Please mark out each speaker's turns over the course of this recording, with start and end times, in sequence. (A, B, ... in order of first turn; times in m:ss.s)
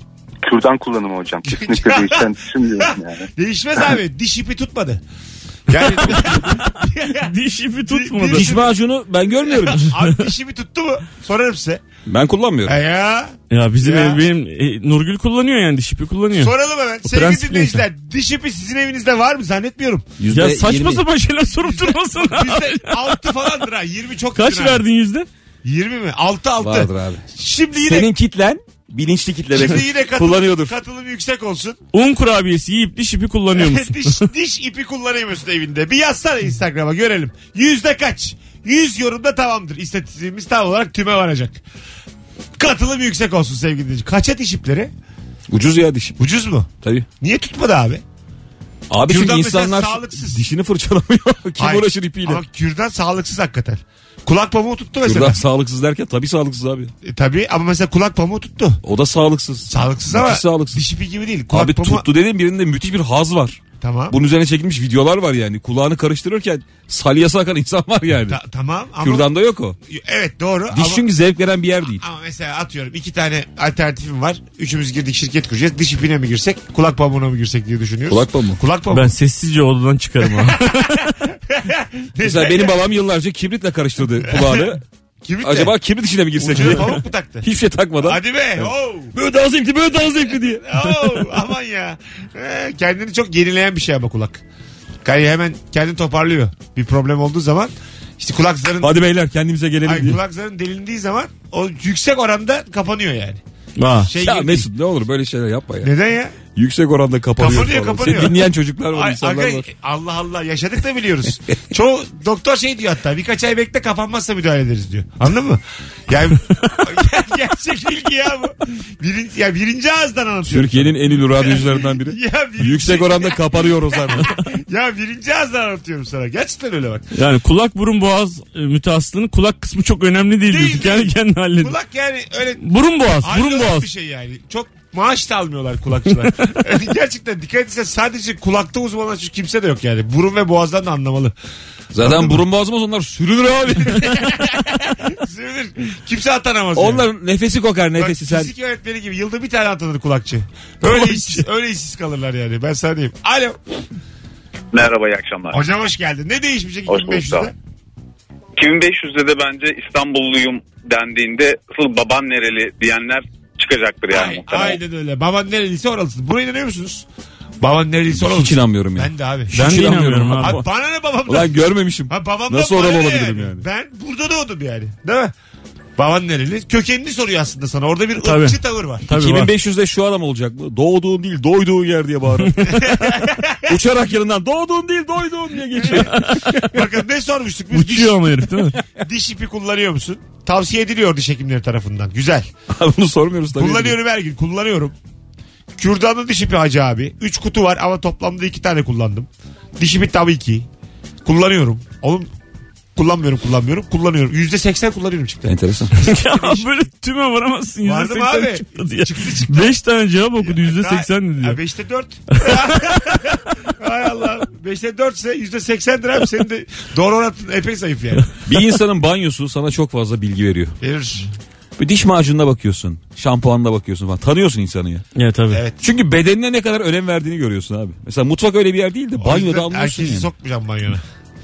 0:00.4-0:03.3 A
0:01.4-0:05.0 B
0:05.7-0:07.3 B
0:06.0-0:08.5 C
0:07.8-0:08.7 B
0:08.3-0:09.9 D
0:09.4-0:11.8 B
0:12.0-0:12.8 D
0:12.6-0:14.2 B
0:13.5-0:16.5 C
0:16.4-0:20.1 B
0:17.0-0:17.8 C
0:20.2-0:21.0 D
0:20.3-0:23.2 C
0:21.6-0:24.8 B
0:24.3-0:25.3 C
0:25.6-0:28.1 B
0:26.6-0:30.8 D
0:29.5-0:31.8 B
0:31.9-0:34.2 C
0:33.5-0:41.6 B
0:42.6-0:44.9 B
0:45.5-0:46.2 D
0:46.2-0:46.7 B
0:46.8-0:47.1 D
0:47.2-0:48.0 B
0:48.9-0:52.4 D
0:49.0-0:50.4 B
0:51.6-0:55.4 B
0:55.0-0:56.9 D
0:57.0-0:58.8 B
0:58.8-1:00.8 D
0:59.7-1:02.0 B
1:01.5-1:08.4 D
1:03.8-1:04.2 B
1:08.3-1:09.3 B
1:09.0-1:09.8 D
1:09.9-1:11.0 B
1:10.7-1:12.0 D
1:12.0-1:19.1 B
1:18.1-1:18.6 D
1:18.9-1:21.2 C
1:20.3-1:20.9 B
1:21.5-1:22.7 B
1:22.2-1:24.8 D
1:24.2-1:24.7 B
1:25.2-1:25.7 B
1:25.4-1:30.8 D
1:26.4-1:27.5 B
1:28.0-1:29.1 B
1:30.6-1:34.4 B
1:35.0-1:38.9 B
1:38.8-1:40.2 D
1:39.8-1:43.4 B
1:43.8-1:44.1 C
1:44.1-1:44.7 B
1:44.2-1:45.9 D
1:45.8-1:46.4 B
1:46.5-1:49.7 D
1:47.4-2:07.0 B
2:00.4-2:04.3 D
2:07.1-2:11.7 C
2:10.4-2:12.6 B
2:12.6-2:13.9 C
2:13.2-2:21.3 B
2:21.9-2:24.4 D
2:22.0-2:22.4 B
2:23.8-2:27.1 B
2:26.7-2:28.5 D
2:28.0-2:33.6 B
2:31.1-2:31.4 D
2:34.7-2:35.6 E
2:35.5-2:37.5 B
2:36.9-2:37.5 E
2:38.6-2:44.8 E
2:44.1-2:47.0 B
2:47.6-2:55.3 B
2:48.1-2:50.6 D
2:49.5-2:50.6 C
2:51.2-2:53.6 D
2:56.0-2:59.1 B
2:58.2-2:59.5 C
2:59.1-3:02.8 D
3:02.4-3:02.8 C
3:02.7-3:03.8 B
3:03.7-3:06.8 D
3:05.8-3:12.5 B
3:05.9-3:06.5 C
3:07.7-3:08.8 C
3:12.7-3:14.0 D
3:13.5-3:14.9 B
3:15.8-3:20.7 B
3:21.2-3:22.3 B
3:23.0-3:26.7 B
3:25.4-3:25.9 D
3:26.0-3:31.6 C
3:27.8-3:29.8 B
3:30.4-3:38.3 B
3:32.4-3:33.0 C
3:38.4-3:40.8 D
3:40.8-3:41.3 B
3:41.8-3:45.0 D
3:45.2-3:45.6 C
3:45.5-3:45.8 B
3:45.8-3:50.3 D
3:49.2-3:51.0 B